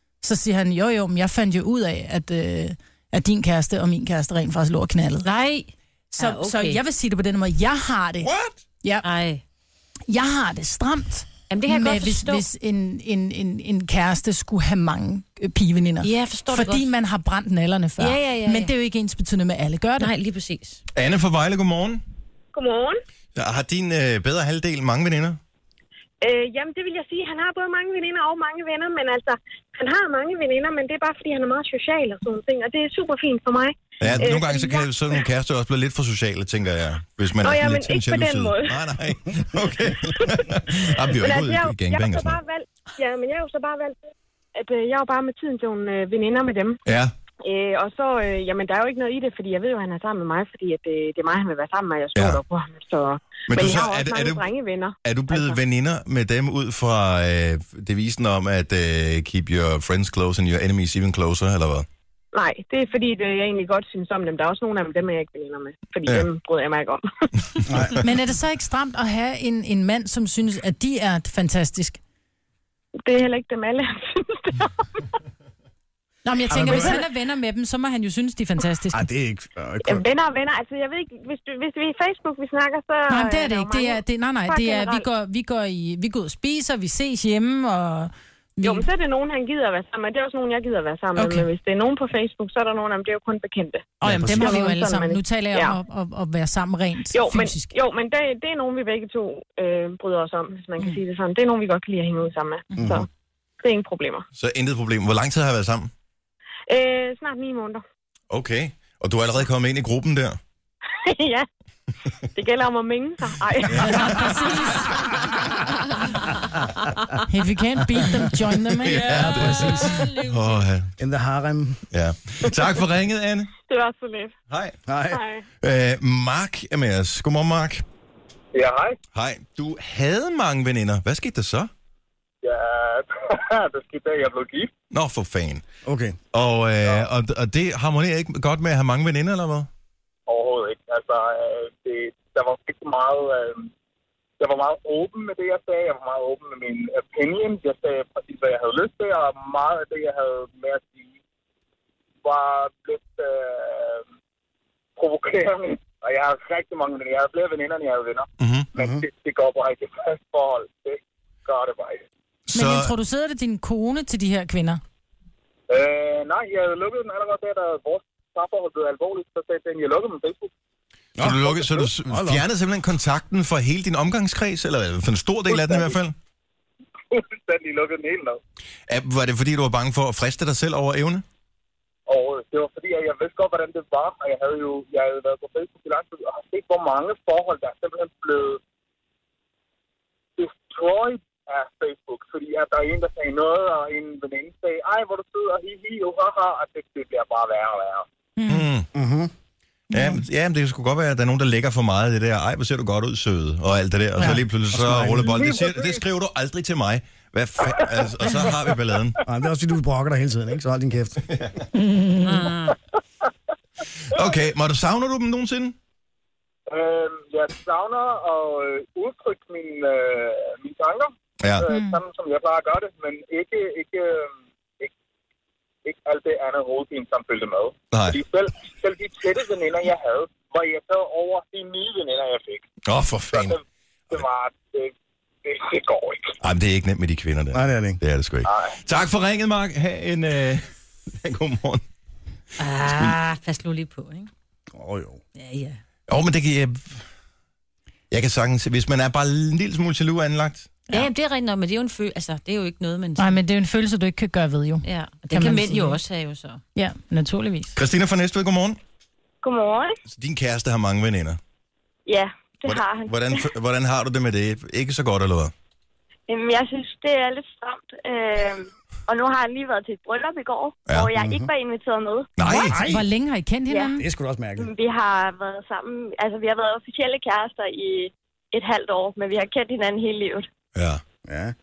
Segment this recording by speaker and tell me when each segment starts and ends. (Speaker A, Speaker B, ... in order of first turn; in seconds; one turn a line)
Speaker A: 0.2-5.3
Speaker B: 5.2-6.8
Speaker A: 6.2-8.3
Speaker B: 9.0-9.4
Speaker A: 10.1-20.1
Speaker B: 11.5-12.4
Speaker B: 16.0-16.9
Speaker B: 18.0-18.7
Speaker B: 20.0-20.8
Speaker C: 20.9-22.0
Speaker D: 22.5-23.0
Speaker C: 23.4-25.4
Speaker D: 26.2-35.2
Speaker C: 34.0-42.4
Speaker D: 37.4-38.8
Speaker D: 41.1-44.0
Speaker D: 44.5-46.8
Speaker C: 46.8-47.1
Speaker D: 47.4-55.6
Speaker C: 52.1-52.4
Speaker C: 53.5-54.5
Speaker C: 55.0-61.9
Speaker D: 62.3-67.3
Speaker E: 67.7-68.0
Speaker A: 68.0-72.0
Speaker D: 73.0-75.1
Speaker A: 76.2-79.1
Speaker E: 76.5-77.0
Speaker D: 76.5-77.0
Speaker E: 78.9-80.0
Speaker D: 79.8-85.1
Speaker A: 83.1-88.9
Speaker D: 88.6-95.8
Speaker A: 91.1-91.5
Speaker E: 94.0-94.6
Speaker A: 94.0-97.7
Speaker D: 97.1-103.1
Speaker E: 102.8-103.0
Speaker D: 103.6-104.2
Speaker C: 104.3-105.9
Speaker D: 106.7-107.8
Speaker C: 108.3-110.4
Speaker D: 110.9-111.5
Speaker D: 112.3-114.3
Speaker C: 113.7-114.2
Speaker A: 113.8-114.8
Speaker A: 117.2-119.2
Speaker C: 118.8-120.9
Speaker B: 118.9-120.6
Speaker E: 119.1-120.1
Speaker E: 121.0-121.8
Speaker C: 121.9-123.5
Speaker D: 123.6-124.3
Speaker C: 124.5-124.8
Speaker E: 124.9-125.2
Speaker D: 125.1-125.4
Speaker C: 125.6-127.8
Speaker F: 128.5-129.0
Speaker C: 129.1-131.7
Speaker F: 132.4-134.7
Speaker C: 134.9-135.6
Speaker E: 135.8-136.2
Speaker C: 136.3-139.7
Speaker F: 140.3-143.7
Speaker F: 144.4-151.1
Speaker F: 152.2-154.0
Speaker F: 155.0-162.0
Speaker C: 158.4-158.7
Speaker E: 158.8-159.0
Speaker C: 162.5-162.9
Speaker A: 162.5-164.8
Speaker F: 165.7-170.5
Speaker E: 171.2-172.4
Speaker C: 171.2-176.2
Speaker F: 175.5-175.9
Speaker F: 177.1-178.4
Speaker C: 178.9-181.2
Speaker F: 182.1-188.6
Speaker F: 190.4-198.1
Speaker A: 198.4-198.7
Speaker C: 198.5-198.9
Speaker E: 198.9-199.3
Speaker C: 199.9-209.2
Speaker A: 199.9-200.2
Speaker E: 204.2-205.4
Speaker F: 205.3-206.0
Speaker F: 207.6-208.8
Speaker E: 209.2-211.4
Speaker A: 211.9-212.2
Speaker B: 212.2-212.8
Speaker C: 214.1-215.8
Speaker F: 216.7-224.9
Speaker C: 221.4-221.7
Speaker A: 221.7-222.0
Speaker F: 225.8-232.7
Speaker C: 227.9-228.2
Speaker C: 232.8-233.6
Speaker F: 233.3-236.3
Speaker C: 236.4-241.8
Speaker E: 237.5-238.0
Speaker F: 238.4-238.7
Speaker B: 242.6-244.3
Speaker C: 242.8-243.2
Speaker E: 244.7-245.2
Speaker B: 245.3-245.8
Speaker C: 246.1-247.0
Speaker C: 248.1-250.7
Speaker B: 250.9-253.4
Speaker A: 253.2-256.0
Speaker B: 254.8-256.6
Speaker A: 256.8-257.8
Speaker C: 257.8-258.8
Speaker G: 259.4-260.0
Speaker C: 260.1-261.4
Speaker G: 262.1-263.4
Speaker C: 262.6-265.5
Speaker G: 266.3-272.3
Speaker E: 271.1-271.5
Speaker C: 272.4-272.8
Speaker A: 272.4-274.0
Speaker E: 272.6-273.1
Speaker G: 273.7-273.9
Speaker E: 274.0-274.7
Speaker G: 274.6-280.5
Speaker C: 280.7-281.0
Speaker E: 281.2-281.5